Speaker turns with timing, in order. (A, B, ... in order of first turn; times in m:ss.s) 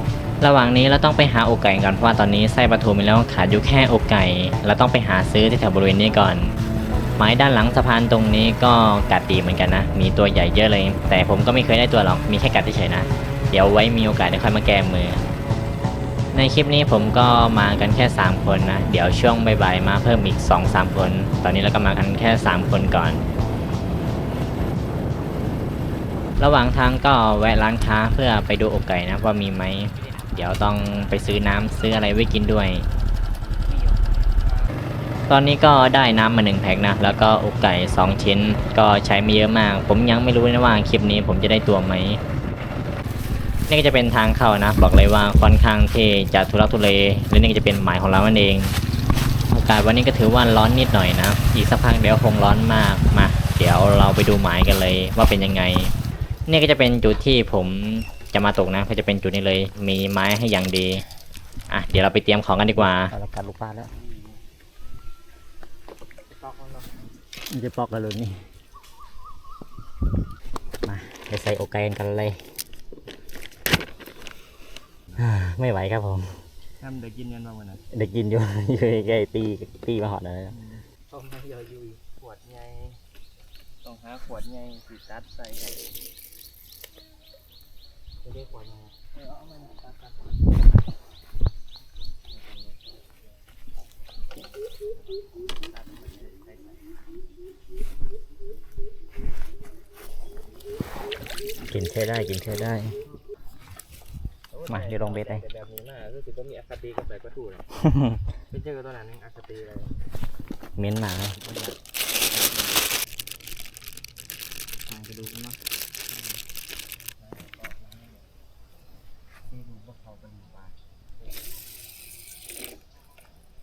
0:00.4-0:06.5 A
0:07.2-0:15.2 A
0:16.3-0:23.2 A
0:26.4-0:32.8 A
0:33.7-0:34.2 B
0:34.4-0:34.8 C
0:35.3-0:42.2 A
0:43.7-0:48.8 A
0:49.5-0:55.9 A
0:56.5-1:01.0 A
1:01.7-1:03.1 A
1:02.8-1:03.9 B
1:06.4-1:06.9 C
1:07.5-1:08.4 B
1:10.9-1:12.4 B
1:15.2-1:16.3 B
1:16.8-1:17.8 C
1:17.9-1:20.6 B
1:20.5-1:20.8 C
1:21.1-1:22.0 B
1:22.2-1:23.0 C
1:23.8-1:25.9 C
1:28.4-1:28.9 B
1:29.1-1:30.2 C
1:32.3-1:32.9 C
1:35.4-1:36.8 C
1:41.7-1:43.0 B
1:44.5-1:47.7 C
1:44.7-1:45.4 B
1:47.9-1:48.2 B
1:48.5-1:49.9 C
1:50.8-1:51.4 B
1:51.4-1:51.8 C
1:52.3-1:52.7 C
1:54.9-1:55.6 C
1:57.2-1:58.2 C
1:59.5-2:00.8 C